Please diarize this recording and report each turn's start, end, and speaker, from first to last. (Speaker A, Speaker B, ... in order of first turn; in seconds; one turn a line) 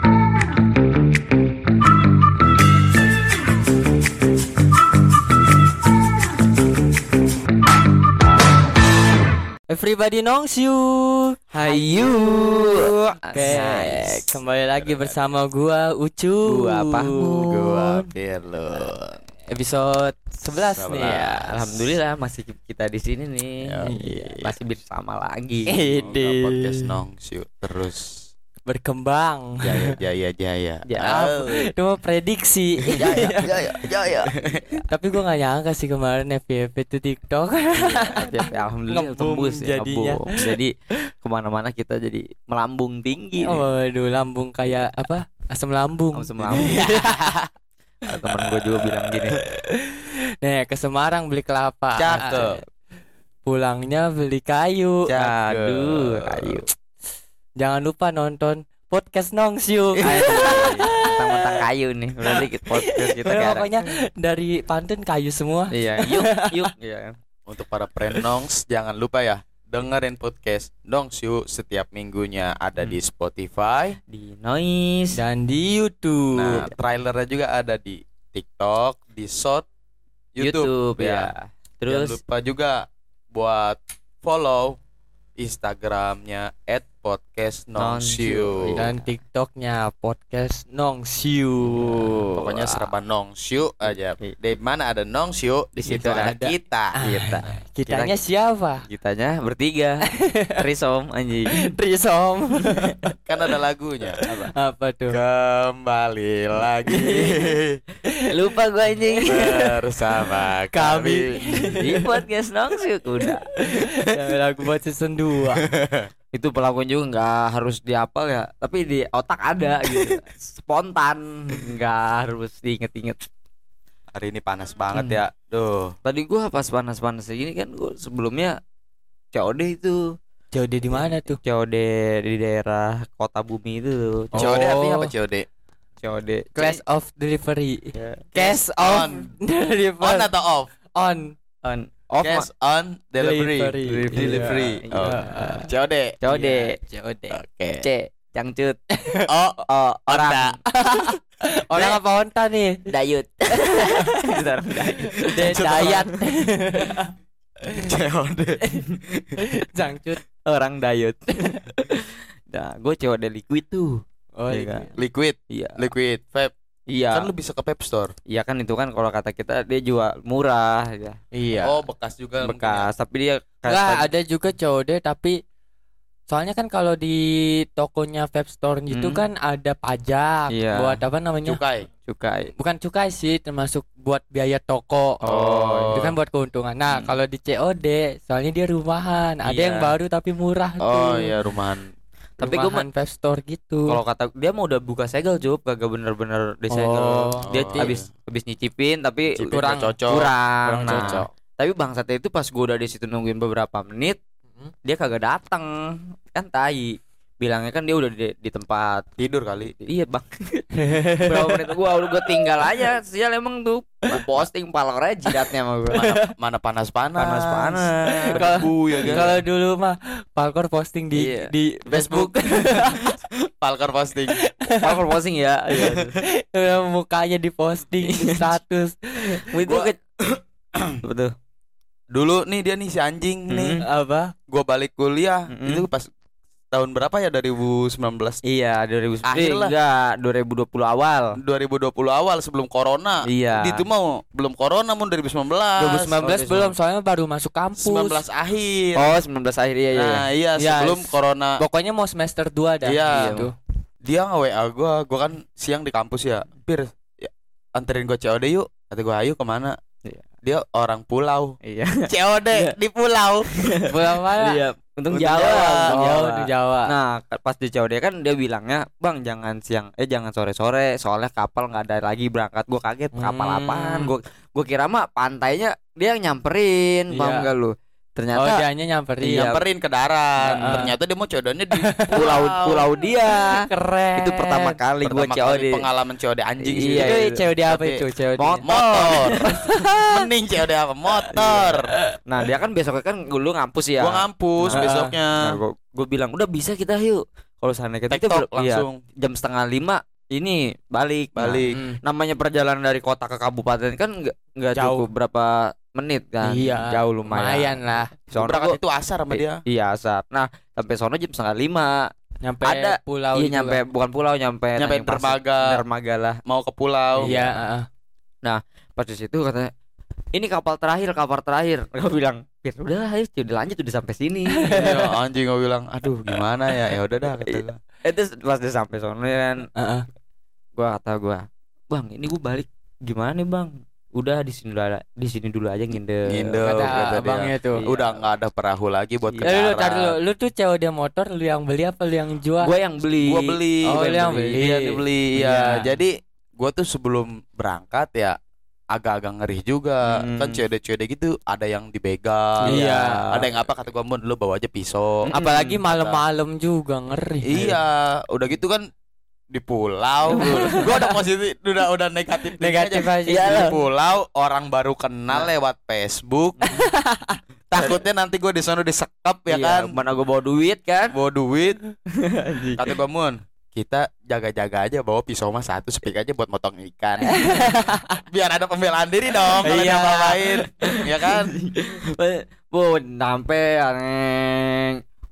Speaker A: 9.7-12.1
Speaker B: 11.5-14.3
Speaker A: 13.3-18.1
Speaker B: 16.5-17.5
Speaker C: 17.4-19.2
Speaker A: 19.5-21.6
Speaker C: 20.6-21.5
Speaker B: 21.0-25.7
Speaker C: 23.6-24.5
Speaker A: 23.8-24.3
Speaker A: 25.7-26.9
Speaker C: 25.9-28.2
Speaker A: 28.7-29.9
Speaker C: 29.6-31.6
Speaker B: 30.9-31.3
Speaker A: 31.1-33.5
Speaker C: 32.9-34.8
Speaker B: 33.0-34.6
Speaker A: 34.9-40.5
Speaker B: 37.8-43.6
Speaker A: 43.4-47.4
Speaker B: 46.1-46.9
Speaker C: 46.4-47.5
Speaker B: 48.0-49.4
Speaker A: 49.3-52.5
Speaker C: 52.0-52.6
Speaker B: 52.1-52.6
Speaker A: 53.5-55.1
Speaker C: 55.1-56.6
Speaker B: 55.2-56.6
Speaker A: 57.6-61.6
Speaker C: 60.0-60.9
Speaker B: 60.0-63.7
Speaker A: 62.2-66.7
Speaker B: 65.7-67.2
Speaker C: 67.5-74.0
Speaker B: 74.1-75.2
Speaker A: 75.1-76.7
Speaker C: 76.3-79.7
Speaker C: 80.3-81.3
Speaker B: 80.4-82.2
Speaker C: 81.9-84.8
Speaker C: 85.4-88.8
Speaker B: 87.8-89.1
Speaker A: 88.8-92.9
Speaker B: 92.0-92.2
Speaker C: 92.4-97.0
Speaker B: 95.8-96.4
Speaker A: 96.2-98.8
Speaker B: 97.0-98.1
Speaker B: 98.8-100.0
Speaker A: 100.2-100.6
Speaker B: 100.6-101.5
Speaker A: 101.6-103.2
Speaker C: 103.3-104.2
Speaker A: 104.2-105.2
Speaker B: 104.2-104.5
Speaker C: 105.1-107.8
Speaker B: 106.9-107.4
Speaker B: 108.3-109.7
Speaker A: 109.0-109.4
Speaker C: 109.2-111.8
Speaker A: 110.7-112.1
Speaker B: 111.8-113.5
Speaker A: 113.2-115.6
Speaker C: 115.6-116.1
Speaker B: 116.3-123.2
Speaker C: 124.1-126.0
Speaker A: 124.9-125.2
Speaker B: 126.0-128.6
Speaker B: 129.3-130.0
Speaker A: 130.5-131.4
Speaker B: 130.9-134.6
Speaker A: 134.3-135.1
Speaker C: 134.4-135.5
Speaker B: 136.0-136.8
Speaker A: 136.6-140.3
Speaker B: 137.9-138.2
Speaker C: 138.3-139.3
Speaker C: 140.0-140.7
Speaker A: 140.9-141.3
Speaker B: 141.6-142.5
Speaker C: 142.2-146.2
Speaker A: 143.2-145.7
Speaker B: 144.1-145.5
Speaker B: 146.2-146.8
Speaker A: 146.3-147.4
Speaker C: 147.3-147.9
Speaker B: 147.8-148.8
Speaker A: 149.0-149.3
Speaker C: 149.3-150.6
Speaker B: 149.7-150.6
Speaker A: 150.7-152.9
Speaker B: 152.9-156.2
Speaker A: 153.5-154.4
Speaker A: 155.2-157.1
Speaker C: 155.4-156.0
Speaker C: 157.7-159.4
Speaker A: 159.4-160.2
Speaker B: 160.4-164.9
Speaker A: 164.4-164.9
Speaker C: 165.0-166.5
Speaker B: 165.5-165.9
Speaker B: 166.9-167.3
Speaker C: 167.1-168.1
Speaker B: 168.3-171.2
Speaker A: 171.3-171.8
Speaker C: 171.6-172.9
Speaker B: 172.4-174.1
Speaker A: 173.7-175.4
Speaker A: 176.3-181.6
Speaker B: 178.9-179.2
Speaker B: 180.5-181.0
Speaker C: 181.5-181.9
Speaker B: 182.1-182.5
Speaker A: 182.6-185.2
Speaker B: 185.2-186.0
Speaker C: 185.2-186.2
Speaker A: 185.9-191.3
Speaker B: 189.4-189.9
Speaker C: 190.8-191.9
Speaker B: 192.4-192.9
Speaker A: 192.4-194.0
Speaker B: 193.9-204.2
Speaker A: 196.7-197.9
Speaker C: 197.4-198.1
Speaker C: 199.3-201.3
Speaker A: 199.5-200.0
Speaker A: 200.8-201.2
Speaker B: 204.8-209.1
Speaker C: 209.2-209.8
Speaker B: 209.8-216.1
Speaker A: 210.8-211.7
Speaker A: 212.5-212.8
Speaker A: 215.3-216.3
Speaker C: 215.9-219.3
Speaker B: 217.2-219.3
Speaker A: 218.3-223.2
Speaker B: 221.1-221.5
Speaker C: 221.9-224.4
Speaker A: 224.3-225.0
Speaker B: 224.8-226.2
Speaker C: 225.8-226.1
Speaker A: 225.9-229.5
Speaker B: 228.0-228.6
Speaker B: 229.4-230.0
Speaker C: 229.7-231.0
Speaker B: 231.0-231.3
Speaker C: 232.1-233.8
Speaker B: 233.5-233.8
Speaker A: 233.8-234.3
Speaker C: 234.5-236.1
Speaker B: 235.5-235.9
Speaker C: 236.7-238.4
Speaker B: 238.4-241.4
Speaker C: 239.2-239.7
Speaker C: 241.4-246.1
Speaker B: 243.3-243.8
Speaker A: 245.8-248.2
Speaker B: 246.1-246.7
Speaker C: 247.8-249.2
Speaker B: 248.9-250.2
Speaker C: 249.9-251.6
Speaker A: 250.6-253.5
Speaker C: 252.8-253.5
Speaker B: 253.1-253.5
Speaker C: 254.0-259.8
Speaker C: 260.4-263.5
Speaker B: 261.6-262.1
Speaker B: 263.6-278.6
Speaker A: 263.9-264.6
Speaker C: 265.1-266.0
Speaker A: 265.4-266.9
Speaker A: 273.1-274.1
Speaker A: 277.1-277.5
Speaker A: 278.4-279.5
Speaker C: 279.3-282.9
Speaker B: 279.3-279.6
Speaker B: 280.4-280.9
Speaker A: 280.5-280.9
Speaker A: 281.8-282.2
Speaker B: 282.1-283.6
Speaker A: 283.3-284.8
Speaker B: 284.2-285.9
Speaker C: 285.0-287.2
Speaker B: 286.6-287.5
Speaker A: 287.0-288.7
Speaker C: 287.7-288.0
Speaker B: 288.4-289.5
Speaker C: 288.6-291.9
Speaker A: 289.3-290.2
Speaker B: 291.3-308.8
Speaker C: 294.0-295.6
Speaker A: 294.7-295.1
Speaker C: 298.1-299.0
Speaker C: 301.4-301.8
Speaker A: 301.7-302.0
Speaker A: 304.8-305.1
Speaker A: 306.4-308.1
Speaker C: 308.4-309.6
Speaker B: 309.3-312.1
Speaker A: 312.4-313.8
Speaker B: 312.6-316.4
Speaker C: 314.8-315.8
Speaker C: 316.5-317.3
Speaker B: 317.2-317.5
Speaker A: 317.2-317.9
Speaker B: 318.4-319.7
Speaker B: 320.3-325.0
Speaker A: 324.6-325.1
Speaker C: 324.8-327.8
Speaker B: 327.4-329.7
Speaker A: 329.8-330.1
Speaker B: 330.8-337.2
Speaker C: 336.3-340.2
Speaker A: 336.6-337.8
Speaker B: 337.8-338.2
Speaker A: 339.4-342.7
Speaker B: 342.6-344.7
Speaker C: 343.2-344.0
Speaker A: 343.9-345.9
Speaker C: 344.5-348.4
Speaker C: 348.9-355.3
Speaker B: 350.1-350.6
Speaker B: 352.7-353.5
Speaker A: 352.7-353.2
Speaker B: 355.3-355.8
Speaker A: 355.3-357.8
Speaker C: 355.9-356.2
Speaker C: 357.5-358.9
Speaker C: 359.5-366.6
Speaker B: 360.3-360.9
Speaker A: 360.3-361.1
Speaker A: 362.6-363.8
Speaker B: 363.3-363.8
Speaker A: 366.7-367.4
Speaker C: 367.7-369.9
Speaker B: 369.5-371.1
Speaker C: 371.1-371.8
Speaker B: 372.1-372.9
Speaker C: 372.8-377.8
Speaker A: 377.3-378.2
Speaker C: 378.3-381.6
Speaker A: 379.6-380.4
Speaker B: 380.9-385.0